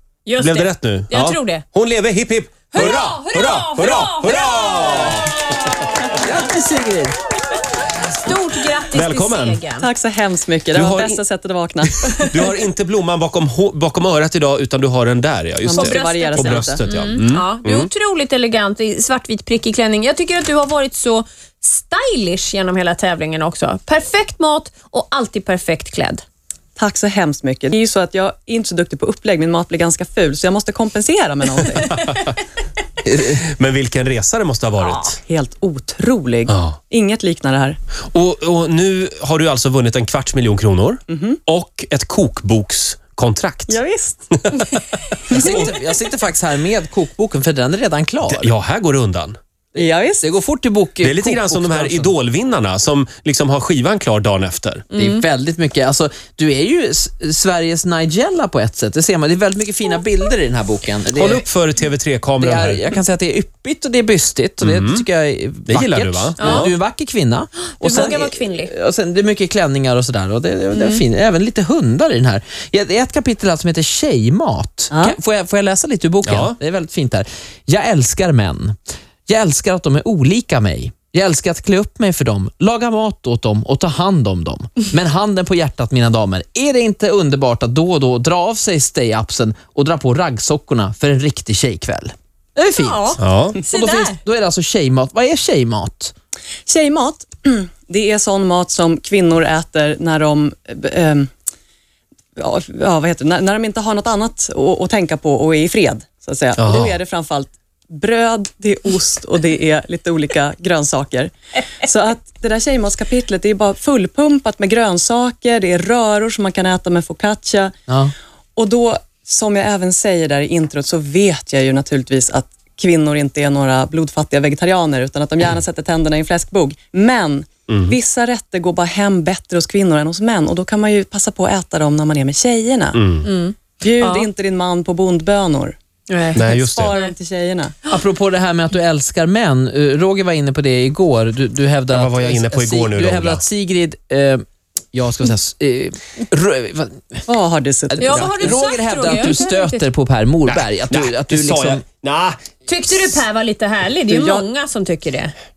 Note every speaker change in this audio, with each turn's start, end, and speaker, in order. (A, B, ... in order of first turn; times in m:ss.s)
0:00.3-0:01.6 A
0:00.4-0:05.4 B
0:02.7-0:05.6 A
0:06.2-0:07.2 C
0:08.1-0:09.9 A
0:08.9-0:09.7 B
0:09.8-0:12.3 D
0:10.7-0:11.2 B
0:12.1-0:17.9 B
0:15.6-0:16.9 D
0:15.7-0:26.2 A
0:26.8-0:32.2 D
0:31.7-0:32.3 B
0:33.1-0:35.2 B
0:35.0-0:37.8 D
0:36.5-0:36.8 B
0:38.1-0:43.8 B
0:41.1-0:41.4 D
0:43.7-0:44.2 D
0:44.3-0:44.8 B
0:45.3-0:45.6 D
0:45.3-0:48.5 C
0:45.4-0:45.6 B
0:48.3-0:49.4 B
0:49.8-0:50.2 D
0:50.2-0:52.2 C
0:51.0-0:54.9 B
0:54.9-0:55.2 A
0:54.9-1:01.4 C
1:01.1-1:02.8 B
1:02.4-1:18.8 C
1:04.6-1:05.0 B
1:05.7-1:06.7 B
1:06.4-1:06.7 A
1:07.8-1:08.7 A
1:10.7-1:11.0 A
1:14.9-1:15.2 D
1:16.2-1:16.6 B
1:19.3-1:36.1 C
1:32.8-1:34.2 A
1:33.2-1:33.6 B
1:36.7-1:41.3 D
1:42.4-1:57.7 D
1:46.6-1:46.9 B
1:57.9-1:58.1 C
1:58.6-2:13.1 D
2:07.7-2:08.0 B
2:13.0-2:13.3 B
2:13.2-2:14.3 A
2:13.8-2:15.8 D
2:16.1-2:17.1 A
2:16.3-2:16.9 B
2:16.3-2:17.7 D
2:17.9-2:27.2 C
2:21.9-2:23.4 B
2:27.3-2:28.2 D
2:27.9-2:31.8 C
2:28.0-2:29.9 A
2:28.1-2:28.5 B
2:30.5-2:32.4 B
2:32.7-2:35.3 A
2:34.1-2:34.5 D